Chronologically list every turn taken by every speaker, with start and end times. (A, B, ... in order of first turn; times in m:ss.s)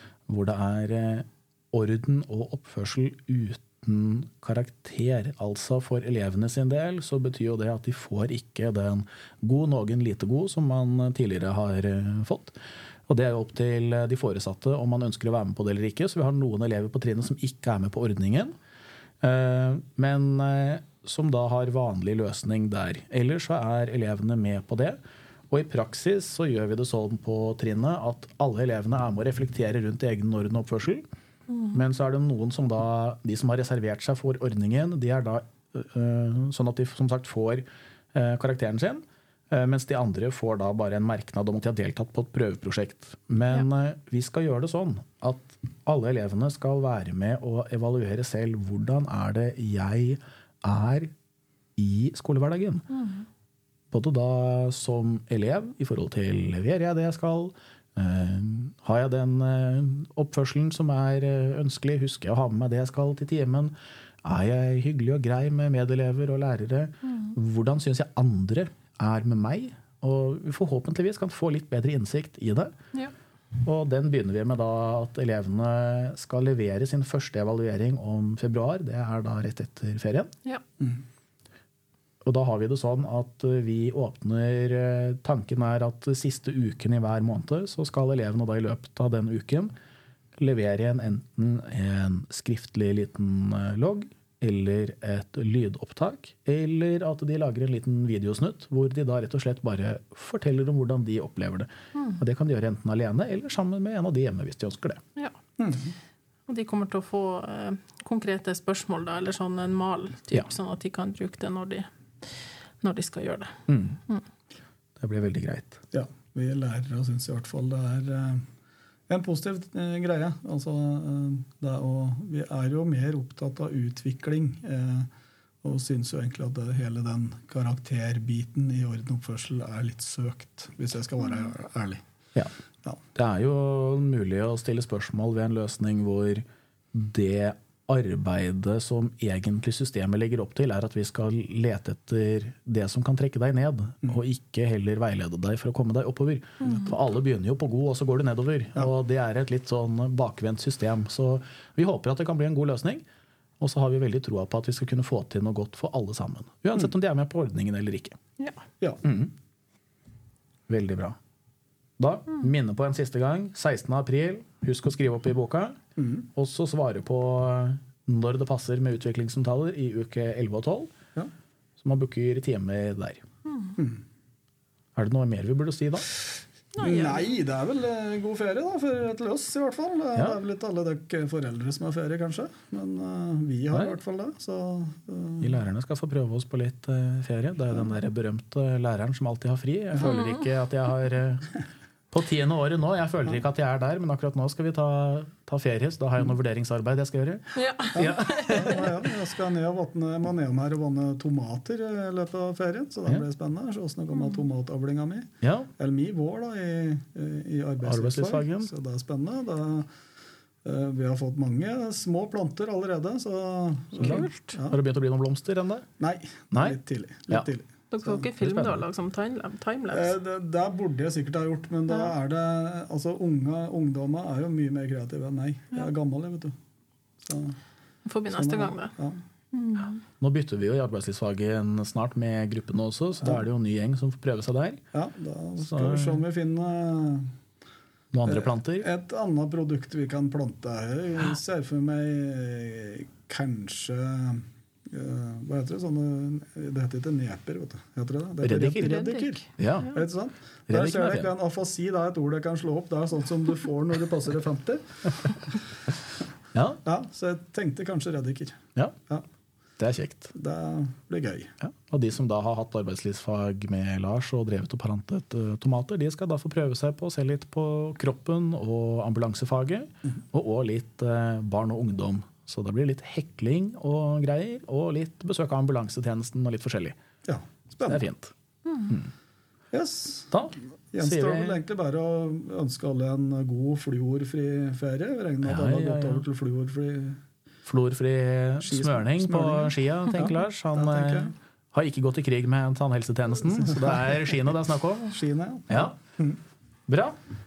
0:00.3-0:12.6 A
0:13.1-0:18.5 A
0:19.2-0:25.0 A
0:25.5-0:31.1 A
0:31.7-0:51.1 A
0:51.8-0:52.8 A
0:53.0-0:53.2 B
0:53.9-1:12.7 A
1:07.1-1:07.3 B
1:13.6-1:20.3 A
1:22.2-1:29.7 A
1:30.4-1:45.0 A
1:45.6-1:45.9 C
1:46.5-1:54.2 B
1:53.7-1:54.0 A
1:55.0-1:55.8 A
1:55.9-1:58.4 C
1:59.1-2:05.1 C
2:05.6-2:12.0 C
2:13.2-2:33.0 A
2:26.6-2:26.9 B
2:33.6-2:38.2 A
2:39.0-2:39.3 A
2:40.7-2:41.2 A
2:42.0-2:45.8 A
2:46.0-2:46.3 C
2:46.4-2:50.9 A
2:51.8-2:53.2 A
2:53.5-2:53.8 B
2:53.8-2:54.0 C
2:55.0-2:56.1 A
2:56.8-2:57.4 B
2:56.8-3:05.6 C
3:05.4-3:11.5 A
3:10.0-3:10.4 B
3:12.1-3:18.9 A
3:17.6-3:18.7 B
3:18.0-3:29.9 C
3:25.4-3:25.7 A
3:27.8-3:28.7 A
3:30.6-3:34.8 C
3:34.0-3:34.6 B
3:34.0-3:35.9 A
3:36.0-3:38.3 C
3:36.5-3:36.8 A
3:37.9-3:40.2 B
3:38.4-3:38.8 A
3:39.9-3:46.6 C
3:47.2-3:47.6 C
3:48.0-3:48.9 B
3:48.3-3:49.2 C
3:49.5-3:50.0 B
3:50.2-3:54.8 A
3:54.9-3:57.3 C
3:55.6-3:56.2 A
3:58.1-3:58.9 A
3:58.3-4:15.5 C
4:08.4-4:08.9 A
4:08.8-4:09.9 B
4:09.6-4:09.9 A
4:10.7-4:11.3 A
4:16.5-4:16.8 A
4:16.8-4:19.2 C
4:19.8-4:20.3 A
4:20.3-4:21.5 C
4:21.6-4:37.0 A
4:37.2-4:38.0 C
4:37.9-4:38.3 A
4:38.7-4:38.9 B
4:39.7-4:40.3 C
4:40.3-4:41.6 A
4:40.9-4:47.2 C
4:45.4-4:46.2 A
4:47.7-4:55.2 A
4:48.6-4:51.3 C
4:55.1-4:56.4 C
4:55.7-4:56.0 A
4:56.9-4:57.2 A